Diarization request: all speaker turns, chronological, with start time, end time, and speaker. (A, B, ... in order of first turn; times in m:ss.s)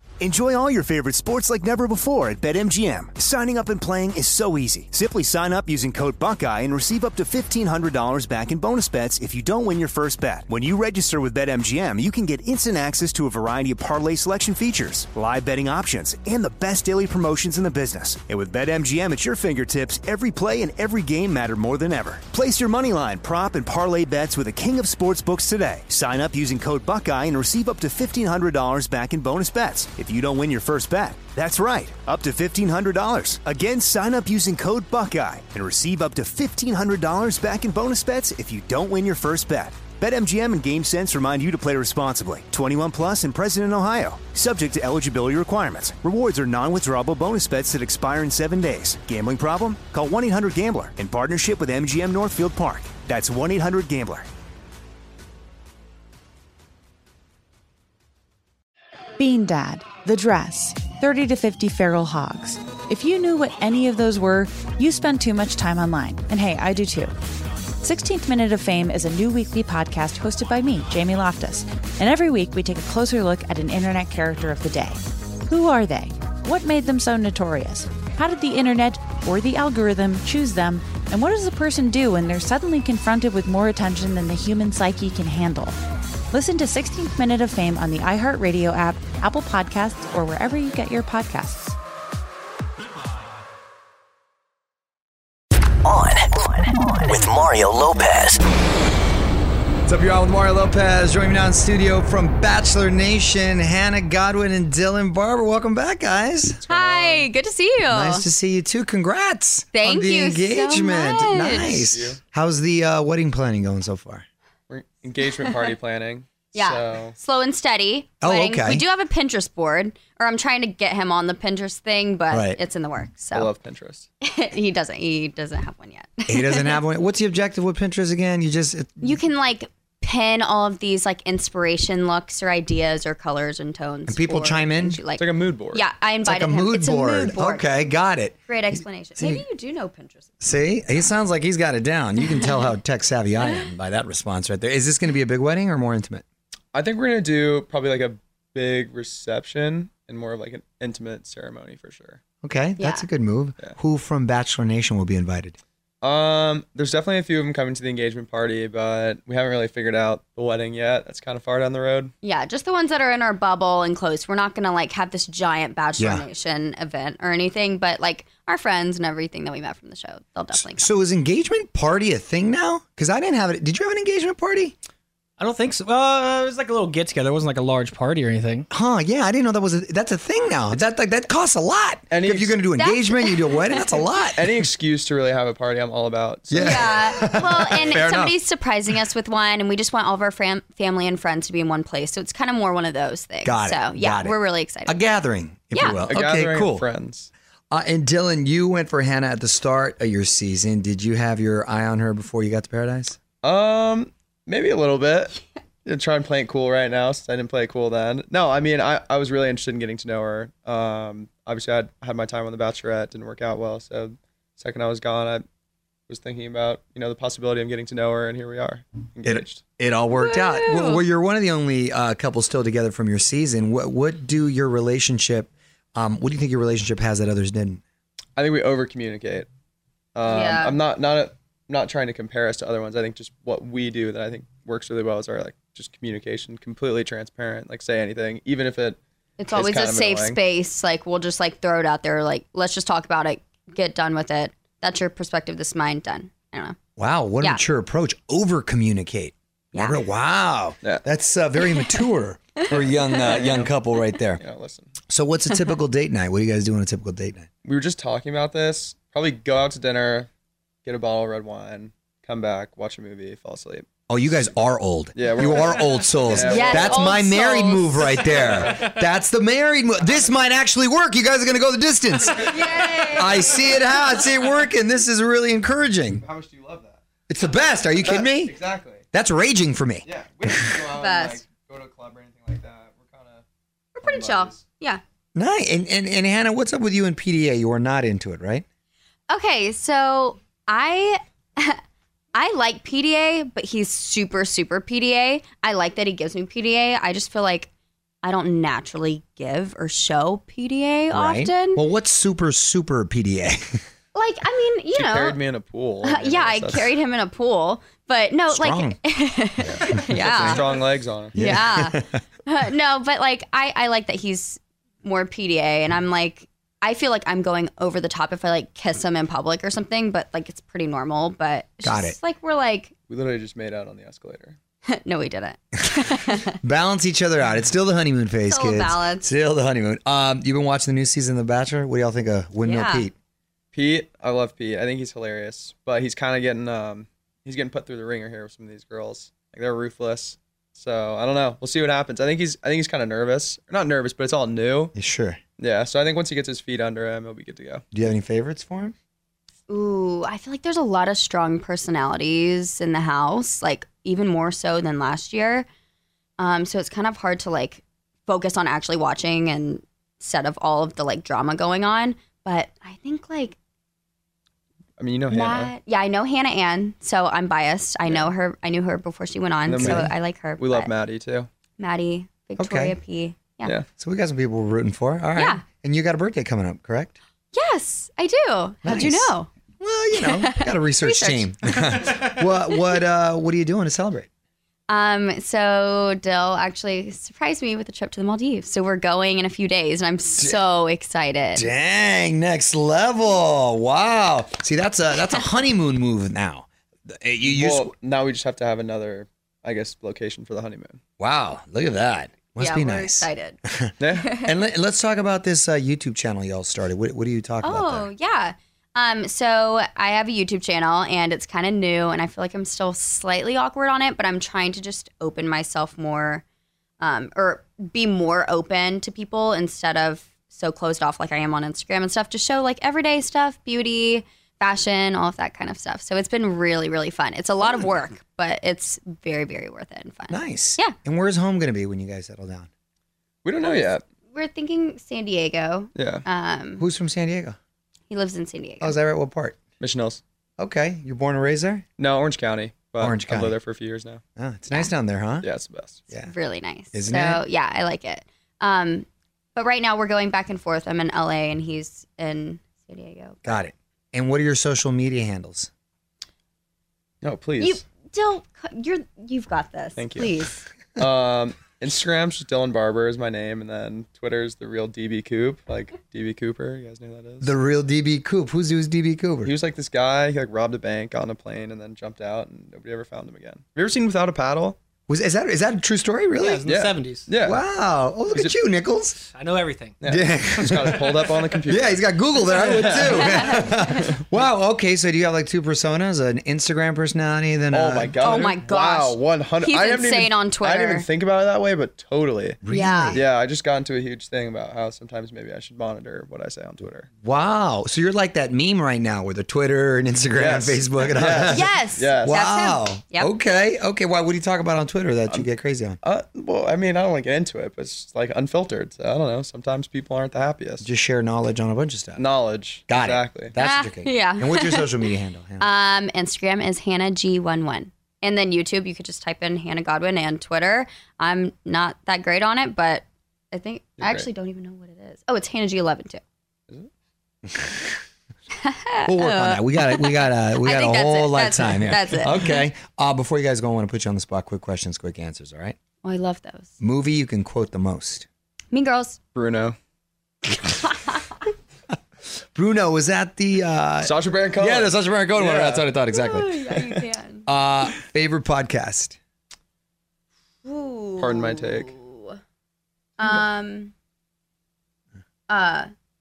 0:00.2-0:54.3 A
0:59.2-1:07.1 B
1:07.8-1:25.8 B
1:26.3-1:31.8 B
1:35.8-1:36.4 C
1:37.0-1:38.4 C
1:39.8-1:46.6 D
1:46.6-1:47.3 E
1:46.7-1:48.3 F
1:47.9-1:54.2 D
1:49.7-1:51.9 F
1:51.9-1:52.2 E
1:54.7-1:57.2 E
1:55.3-1:55.6 F
1:56.5-2:03.5 F
1:58.2-1:58.8 D
2:02.3-2:02.6 D
2:03.3-2:04.1 E
2:04.2-2:06.8 F
2:06.3-2:09.2 D
2:09.0-2:17.9 F
2:14.1-2:15.0 D
2:15.2-2:15.8 E
2:16.2-2:19.4 D
2:18.5-2:20.3 F
2:20.4-2:26.2 D
2:22.2-2:22.7 F
2:26.7-2:32.2 E
2:32.4-2:35.6 D
2:32.8-2:33.0 F
2:36.0-2:42.1 E
2:42.2-2:50.9 F
2:46.0-2:46.2 D
2:50.5-2:54.7 D
2:55.4-2:58.6 G
2:58.7-3:04.6 D
3:02.1-3:02.6 E
3:02.7-3:04.3 F
3:04.3-3:07.0 E
3:06.5-3:08.4 D
3:06.6-3:15.0 F
3:13.4-3:16.9 D
3:15.7-3:16.0 F
3:16.1-3:17.3 E
3:17.7-3:23.2 D
3:23.4-3:35.4 E
3:36.1-3:39.6 E
3:39.2-3:47.8 D
3:40.1-3:41.0 F
3:48.4-3:49.5 E
3:50.1-4:00.4 E
3:50.2-3:50.8 F
3:59.4-4:06.8 F
4:07.0-4:14.4 D
4:09.7-4:10.0 F
4:12.7-4:13.4 F
4:13.2-4:13.7 E
4:14.4-4:14.9 E
4:15.1-4:17.5 D
4:17.6-4:20.3 E
4:20.8-4:23.8 E
4:24.1-4:36.2 D
4:25.1-4:27.1 E
4:26.3-4:28.3 F
4:28.3-4:28.8 E
4:32.4-4:34.1 F
4:36.1-4:37.0 E
4:37.3-4:38.6 D
4:38.0-4:39.0 E
4:39.1-4:40.9 D
4:40.0-4:43.4 E
4:41.0-4:41.4 F
4:44.0-4:45.0 F
4:44.0-4:44.6 E
4:45.3-4:48.6 D
4:49.3-4:51.8 F
4:52.3-4:57.7 F
4:58.2-5:01.8 F
5:01.1-5:03.8 D
5:04.1-5:05.4 F
5:04.9-5:06.9 E
5:06.0-5:23.0 F
5:08.5-5:09.1 D
5:09.6-5:11.3 E
5:09.8-5:10.6 D
5:11.3-5:12.2 D
5:21.8-5:22.2 D
5:23.1-5:24.6 E
5:24.9-5:26.5 F
5:26.6-5:33.1 D
5:28.5-5:29.3 F
5:32.6-5:33.1 F
5:33.7-5:44.9 E
5:44.9-5:45.4 D
5:45.6-5:47.8 E
5:47.9-5:48.9 D
5:49.7-5:55.7 F
5:56.4-6:03.6 F
6:05.0-6:05.7 E
6:05.3-6:10.9 F
6:09.6-6:11.5 E
6:09.8-6:10.1 D
6:11.8-6:13.7 F
6:12.6-6:13.0 D
6:14.0-6:17.2 D
6:15.4-6:15.6 F
6:17.5-6:19.5 F
6:18.8-6:24.3 D
6:20.2-6:22.2 F
6:24.9-6:31.7 F
6:31.5-6:37.9 D
6:37.4-6:41.0 E
6:41.2-6:48.1 D
6:42.6-6:44.5 F
6:44.0-6:44.3 E
6:47.6-6:56.4 F
6:57.0-7:10.9 F
7:10.3-7:12.7 D
7:13.4-7:14.0 E
7:14.3-7:16.8 F
7:15.9-7:16.2 E
7:16.8-7:17.6 D
7:18.1-7:19.0 F
7:18.8-7:19.6 D
7:19.8-7:20.2 E
7:20.6-7:21.8 D
7:22.0-7:24.2 E
7:23.0-7:23.6 D
7:24.4-7:25.5 D
7:25.4-7:26.0 E
7:26.2-7:33.6 F
7:26.9-7:27.4 D
7:33.4-7:35.7 D
7:37.2-7:37.8 E
7:37.6-7:40.7 F
7:40.0-7:40.4 E
7:41.0-7:47.5 E
7:47.4-7:49.5 D
7:49.4-7:54.8 E
7:55.1-7:56.7 D
7:56.4-7:57.3 G
7:56.6-7:57.6 E
7:57.4-7:59.2 D
7:59.4-8:00.0 G
8:00.0-8:03.6 E
8:00.0-8:08.4 D
8:03.1-8:03.6 F
8:07.7-8:17.1 E
8:08.2-8:11.1 F
8:12.6-8:13.2 D
8:12.7-8:13.2 F
8:17.2-8:26.0 D
8:20.3-8:22.4 E
8:21.5-8:23.3 F
8:26.0-8:30.9 E
8:30.8-8:32.2 D
8:32.2-8:33.6 E
8:32.9-8:35.6 D
8:33.6-8:46.2 F
8:44.0-8:44.3 E
8:48.6-8:52.6 F
8:49.0-8:55.8 D
8:56.0-8:56.7 F
8:56.8-8:58.3 D
8:58.7-8:59.2 F
8:59.3-8:59.7 E
9:00.4-9:01.4 F
9:02.5-9:06.6 D
9:04.0-9:05.9 E
9:06.1-9:07.4 F
9:07.5-9:09.2 D
9:10.6-9:12.4 F
9:11.2-9:11.9 E
9:13.2-9:13.9 F
9:15.5-9:15.9 F